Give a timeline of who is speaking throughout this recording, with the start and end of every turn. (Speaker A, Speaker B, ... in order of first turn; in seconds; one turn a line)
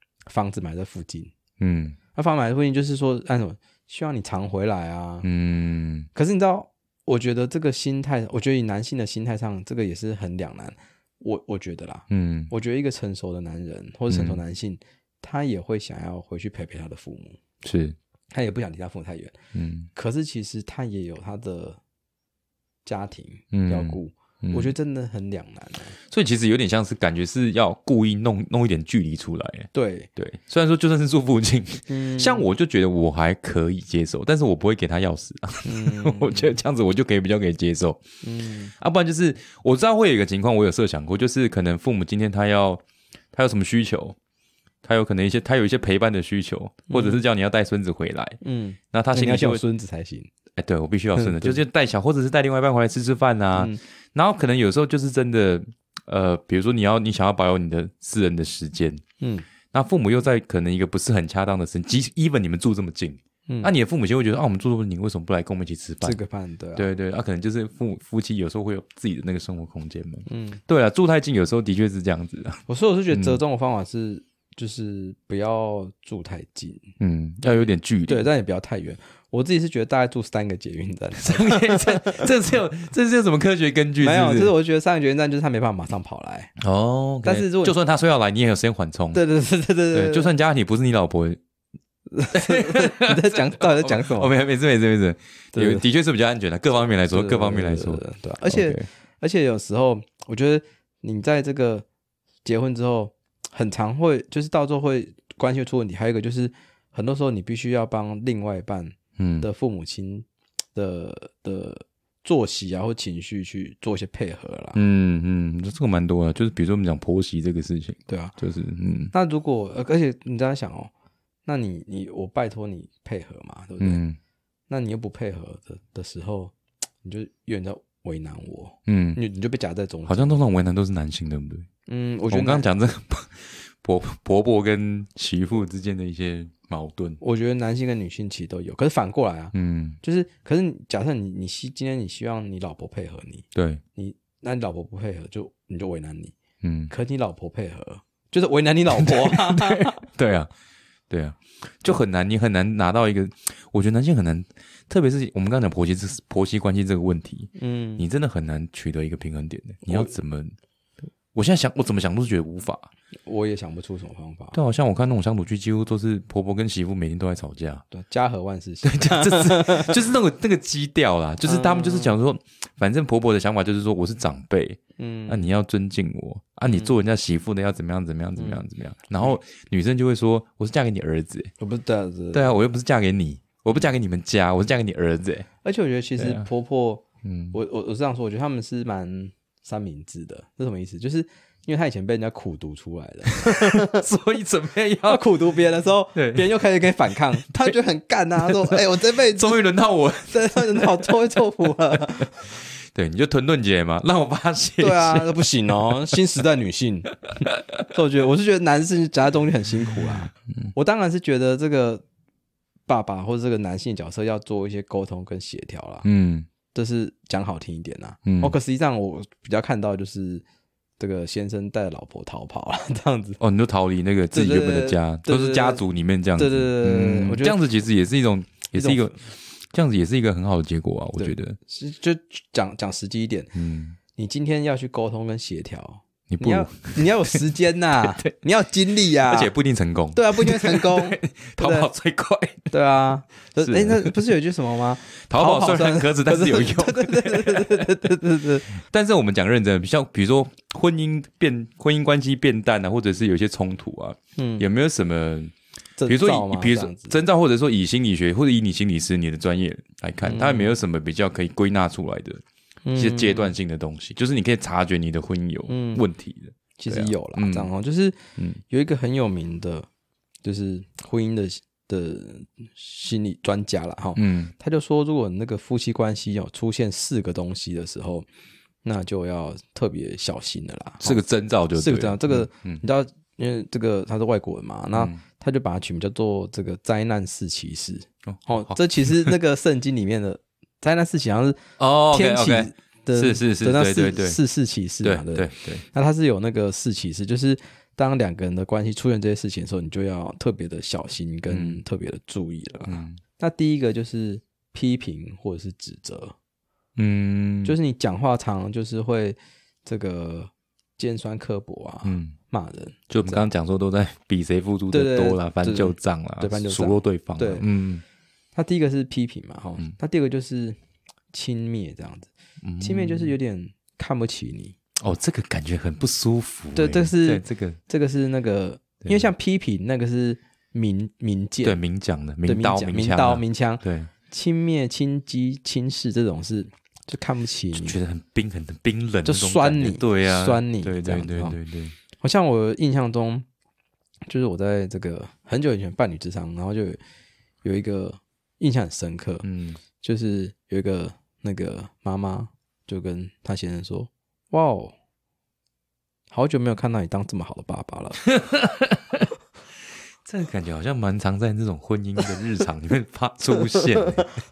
Speaker A: 0.3-1.3
Speaker B: 1.6-2.0
Speaker A: 2.1-5.3
Speaker B: 5.2-6.1
Speaker A: 6.1-17.4
Speaker B: 12.1-12.5
Speaker B: 14.1-14.4
Speaker B: 17.6-18.0
Speaker A: 18.3-19.3
Speaker B: 19.5-19.9
Speaker A: 19.9-21.8
Speaker A: 22.8-25.9
Speaker B: 23.5-24.7
Speaker B: 26.1-38.0
Speaker A: 29.7-30.1
Speaker A: 31.9-32.5
Speaker A: 35.6-36.5
Speaker A: 38.2-38.7
Speaker B: 38.7-44.1
Speaker B: 44.8-48.4
Speaker A: 46.9-47.2
Speaker A: 48.4-50.3
Speaker B: 48.9-49.6
Speaker B: 50.5-59.0
Speaker A: 51.2-51.6
Speaker A: 53.5-53.8
Speaker A: 59.2-59.5
Speaker B: 59.7-66.2
Speaker A: 63.5-63.7
Speaker A: 66.0-66.9
Speaker B: 66.8-73.4
Speaker A: 70.3-70.6
Speaker A: 72.7-76.9
Speaker B: 77.0-78.3
Speaker A: 77.5-82.3
Speaker B: 81.2-84.5
Speaker A: 84.0-86.5
Speaker B: 86.6-89.2
Speaker A: 87.2-87.7
Speaker A: 89.1-90.3
Speaker B: 89.9-91.4
Speaker A: 92.1-94.3
Speaker B: 92.3-98.9
Speaker A: 95.5-95.8
Speaker A: 97.1-101.8
Speaker A: 102.4-114.8
Speaker B: 109.2-109.5
Speaker B: 114.7-119.1
Speaker A: 118.1-118.3
Speaker A: 119.1-120.9
Speaker A: 121.5-124.0
Speaker B: 123.8-124.2
Speaker A: 124.7-130.3
Speaker B: 128.9-129.2
Speaker B: 130.1-131.7
Speaker A: 131.9-132.7
Speaker B: 132.3-137.2
Speaker A: 137.2-146.3
Speaker B: 139.5-140.0
Speaker B: 143.5-143.8
Speaker B: 146.6-146.9
Speaker A: 146.9-150.0
Speaker B: 148.9-150.5
Speaker B: 151.1-160.5
Speaker A: 157.6-158.0
Speaker A: 159.8-160.1
Speaker B: 161.3-162.9
Speaker A: 163.2-164.6
Speaker B: 164.5-167.8
Speaker A: 167.9-170.0
Speaker B: 168.8-181.5
Speaker A: 171.4-172.1
Speaker A: 175.0-175.5
Speaker A: 176.7-176.9
Speaker A: 178.4-178.6
Speaker A: 181.6-182.5
Speaker B: 182.3-185.5
Speaker A: 185.6-194.1
Speaker B: 186.2-186.4
Speaker B: 187.2-187.6
Speaker B: 193.3-195.2
Speaker A: 195.0-199.6
Speaker B: 196.1-197.7
Speaker B: 198.4-201.4
Speaker A: 200.3-202.5
Speaker B: 202.4-206.1
Speaker A: 204.8-207.1
Speaker B: 207.4-207.9
Speaker A: 207.9-212.0
Speaker A: 212.9-216.1
Speaker B: 216.0-216.5
Speaker A: 216.7-220.4
Speaker B: 218.2-218.5
Speaker A: 221.0-223.4
Speaker B: 223.4-231.6
Speaker A: 224.3-225.8
Speaker A: 226.3-227.6
Speaker A: 228.7-229.2
Speaker A: 231.2-233.5
Speaker B: 233.5-234.0
Speaker A: 234.1-239.5
Speaker B: 236.3-237.4
Speaker B: 238.0-238.3
Speaker B: 239.2-242.7
Speaker A: 240.1-241.9
Speaker A: 242.7-248.7
Speaker B: 243.6-244.1
Speaker B: 245.2-255.5
Speaker A: 254.4-254.7
Speaker A: 256.0-257.2
Speaker B: 256.1-262.4
Speaker A: 260.2-260.7
Speaker A: 262.8-263.5
Speaker B: 262.9-267.7
Speaker A: 265.7-266.0
Speaker A: 266.8-269.9
Speaker A: 270.4-278.3
Speaker B: 274.1-274.5
Speaker A: 278.8-281.2
Speaker B: 281.0-282.8
Speaker A: 281.7-291.6
Speaker B: 284.9-285.2
Speaker B: 288.3-289.3
Speaker B: 291.8-294.4
Speaker A: 292.1-306.3
Speaker B: 295.0-295.8
Speaker B: 301.5-301.8
Speaker B: 302.9-303.2
Speaker B: 306.9-307.8
Speaker A: 307.6-313.5
Speaker B: 312.0-312.3
Speaker B: 313.1-318.0
Speaker A: 314.9-317.6
Speaker A: 318.6-320.8
Speaker A: 321.3-324.8
Speaker B: 322.6-323.3
Speaker B: 325.0-327.8
Speaker A: 326.7-331.8
Speaker B: 329.0-329.3
Speaker B: 331.6-334.1
Speaker A: 332.4-338.0
Speaker B: 337.7-341.9
Speaker A: 339.2-341.6
Speaker A: 342.2-343.4
Speaker A: 344.3-347.0
Speaker A: 347.6-349.4
Speaker B: 349.4-349.8
Speaker A: 350.0-354.9
Speaker A: 356.3-358.2
Speaker B: 358.2-359.3
Speaker B: 360.2-364.3